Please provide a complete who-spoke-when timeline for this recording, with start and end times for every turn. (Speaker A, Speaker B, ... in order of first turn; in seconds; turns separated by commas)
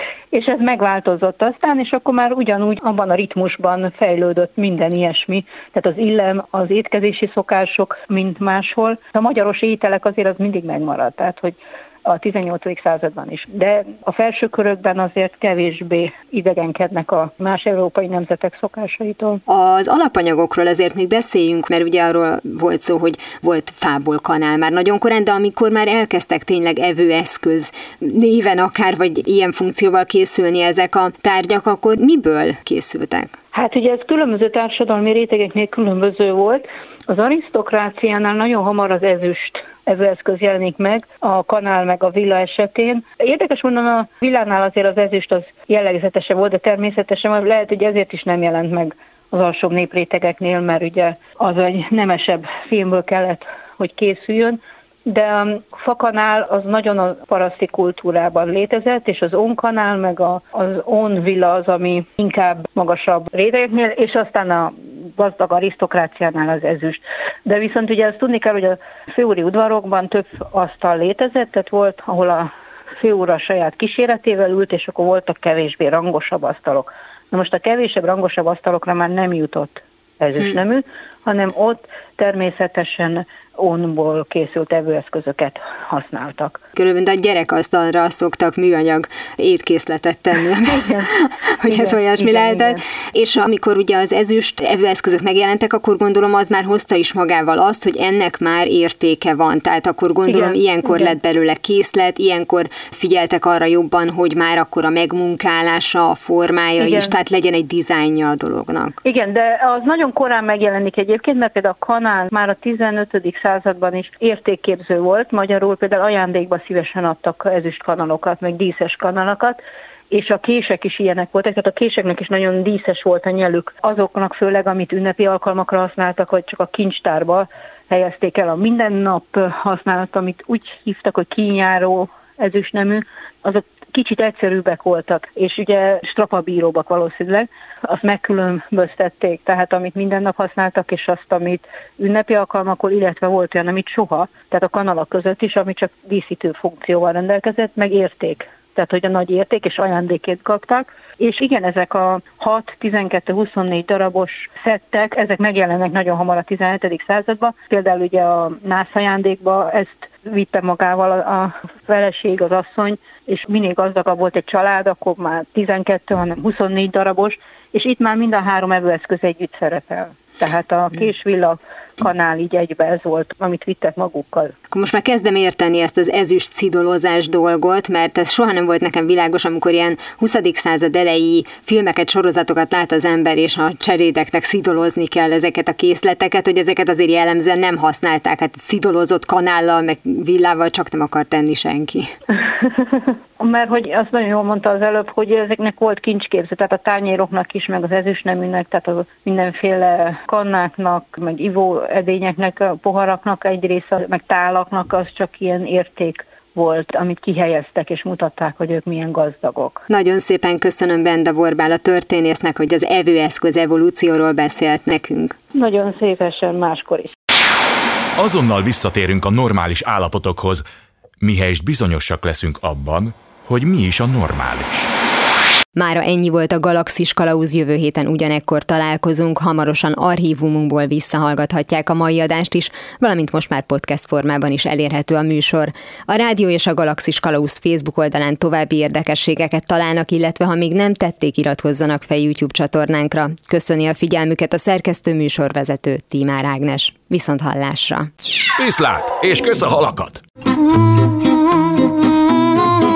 Speaker A: 0.3-19.4, Speaker B: 19.5-33.3, Speaker A: 33.5-86.6, Speaker B: 86.8-109.0, Speaker A: 90.7-91.1, Speaker A: 91.7-92.8, Speaker A: 100.3-101.1, Speaker A: 106.8-107.2, Speaker A: 109.0-174.5, Speaker B: 174.7-192.1, Speaker A: 192.4-209.9, Speaker B: 209.9-215.3, Speaker A: 215.5-217.1, Speaker C: 218.2-220.6, Speaker C: 221.2-224.9, Speaker B: 225.7-248.1, Speaker C: 248.6-250.2